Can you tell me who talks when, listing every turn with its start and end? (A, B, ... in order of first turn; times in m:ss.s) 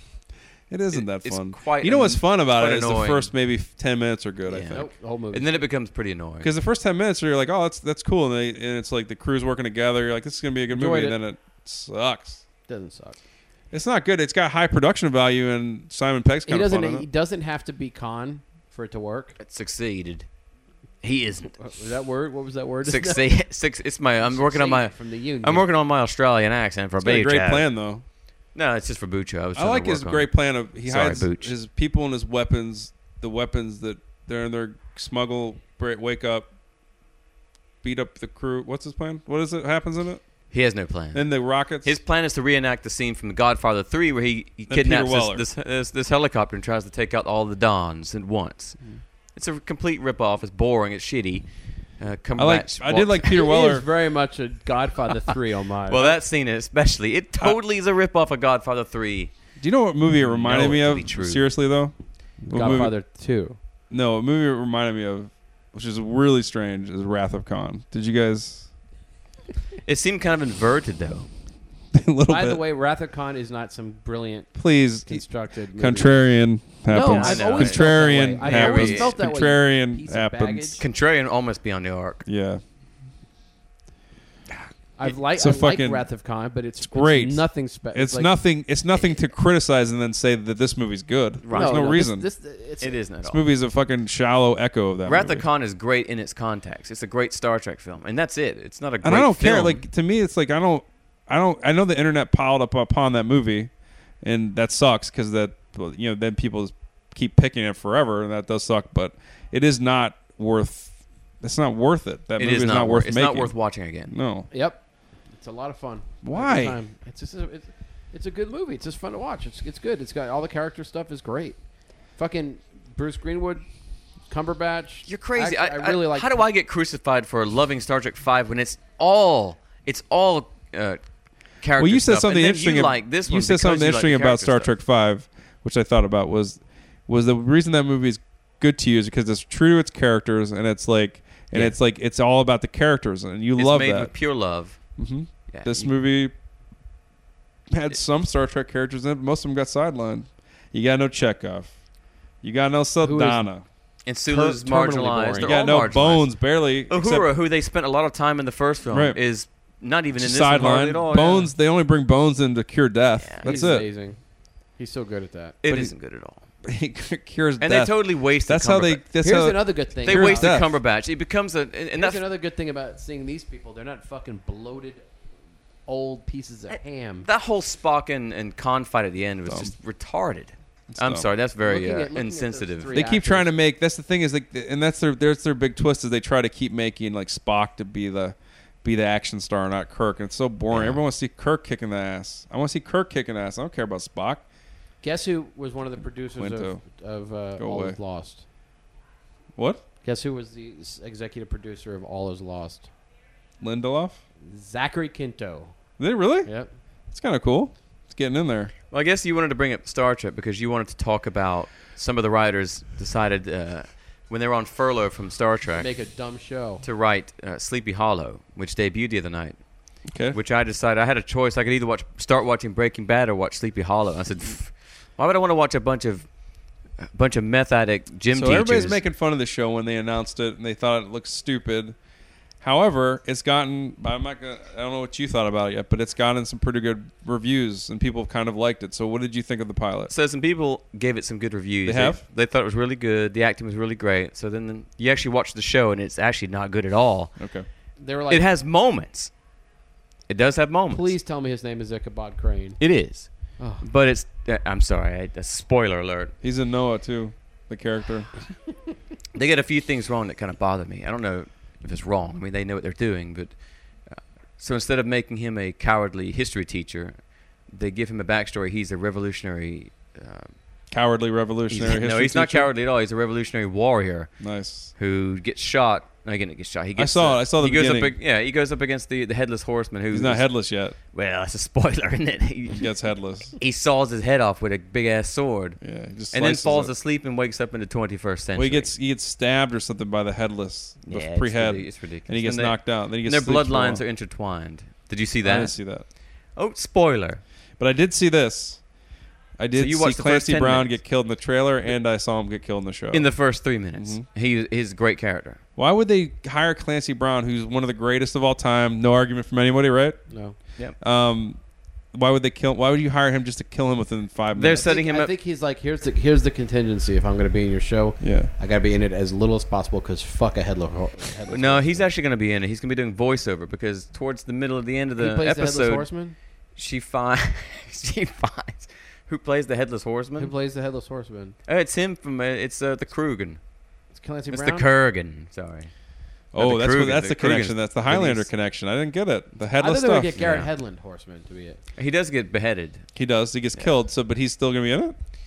0:00.7-0:04.9 A
0:00.9-0:03.3 B
0:04.5-0:06.5 B
0:04.7-0:05.7 C
0:06.4-0:12.4 A
0:10.7-0:11.2 C
0:12.7-0:13.2 C
0:13.7-0:17.1 A
0:16.5-0:19.4 C
0:19.4-0:20.3 B
0:21.0-0:21.6 B
0:21.6-0:23.3 C
0:22.8-0:27.7 B
0:24.2-0:25.7 C
0:27.0-0:28.0 A
0:28.6-0:31.5 B
0:29.6-0:36.5 A
0:37.8-0:40.2 A
0:40.5-0:41.3 B
0:41.1-0:42.0 A
0:41.8-0:48.8 B
0:44.7-0:45.4 A
0:49.4-0:51.5 B
0:52.0-0:53.4 B
0:52.4-0:53.9 A
0:53.3-0:56.2 C
0:55.9-0:59.3 B
0:59.6-1:02.9 A
1:00.2-1:01.5 B
1:02.5-1:03.6 C
1:03.9-1:08.7 A
1:09.8-1:11.3 B
1:11.9-1:12.6 A
1:12.3-1:16.2 C
1:14.6-1:20.8 A
1:16.9-1:20.8 C
1:17.0-1:19.2 B
1:20.8-1:22.2 B
1:22.3-1:22.6 A
1:25.0-1:28.3 C
1:25.0-1:26.1 A
1:26.8-1:32.3 A
1:31.4-1:32.0 B
1:31.5-1:33.0 C
1:32.8-1:33.4 B
1:33.2-1:35.4 A
1:35.1-1:39.8 B
1:39.0-1:43.7 A
1:44.2-1:53.5 A
1:52.4-1:54.1 B
1:54.1-1:54.5 A
1:54.5-2:01.6 C
1:56.2-1:56.8 A
2:02.2-2:03.7 C
2:04.3-2:06.3 C
2:05.1-2:11.0 B
2:11.6-2:14.7 B
2:11.8-2:24.1 A
2:23.6-2:24.8 B
2:25.0-2:26.3 A
2:25.5-2:25.9 B
2:27.7-2:31.7 A
2:32.4-2:33.6 A
2:33.0-2:33.4 C
2:34.1-2:41.5 B
2:34.3-2:35.9 C
2:35.4-2:37.3 A
2:38.9-2:39.2 A
2:40.2-2:43.8 A
2:43.2-2:43.7 B
2:43.4-2:44.2 C
2:44.8-2:45.6 C
2:45.6-2:46.4 B
2:45.7-2:45.9 A
2:46.6-2:50.7 A
2:47.6-2:49.0 B
2:49.2-2:50.6 C
2:50.0-2:52.3 B
2:52.0-2:55.1 C
2:55.9-2:57.3 C
2:57.2-3:03.0 B
2:59.5-2:59.7 A
3:00.9-3:01.3 A
3:01.6-3:03.5 C
3:02.9-3:14.4 A
3:10.7-3:11.0 B
3:15.0-3:18.4 C
3:16.4-3:16.8 A
3:17.6-3:18.0 A
3:19.6-3:19.8 A
3:20.0-3:22.9 C
3:23.6-3:24.2 A
3:24.5-3:25.7 C
3:26.0-3:26.5 A
3:26.4-3:26.7 C
3:27.1-3:28.7 A
3:28.9-3:35.9 B
3:35.8-3:36.8 C
3:36.8-3:39.6 B
3:40.1-3:40.4 A
3:40.3-3:46.3 B
3:47.0-3:49.0 B
3:48.3-3:52.0 A
3:52.6-4:00.1 A
4:00.1-4:07.4 B
4:01.8-4:02.2 A
4:07.4-4:07.7 A
4:08.0-4:08.4 C
4:08.3-4:09.3 B
4:10.3-4:11.1 B
4:10.9-4:12.8 C
4:12.8-4:13.3 B
4:13.8-4:16.3 B
4:16.4-4:18.3 A
4:19.4-4:23.5 B
4:24.1-4:27.2 B
4:27.7-4:30.5 B
4:30.9-4:32.7 A
4:31.7-4:34.3 B
4:34.4-4:34.9 A
4:35.0-4:40.4 B
4:37.0-4:38.2 A
4:40.1-4:41.0 A
4:41.1-4:42.9 B
4:42.7-4:43.6 A
4:43.6-4:45.8 B
4:45.8-4:46.9 A
4:46.3-4:48.9 B
4:48.6-4:54.0 A
4:51.1-4:55.7 B
4:55.4-4:56.1 A
4:56.6-4:57.4 B
4:57.8-4:58.8 A
4:59.6-5:03.3 A
4:59.8-5:01.0 B
5:03.1-5:05.6 B
5:04.0-5:04.2 A
5:05.8-5:10.2 A
5:10.3-5:10.6 C
5:11.0-5:11.6 A
5:12.1-5:14.9 A
5:14.5-5:15.3 B
5:14.7-5:22.1 C
5:18.2-5:18.5 A
5:21.5-5:26.1 B
5:25.2-5:26.4 C
5:26.8-5:30.5 B
5:30.4-5:31.6 C
5:31.7-5:33.6 B
5:34.1-5:34.9 C
5:34.5-5:35.9 B
5:36.5-5:40.4 A
5:36.6-5:38.5 B
5:39.8-5:41.8 C
5:40.4-5:40.7 B
5:42.0-5:43.1 B
5:43.2-5:45.2 A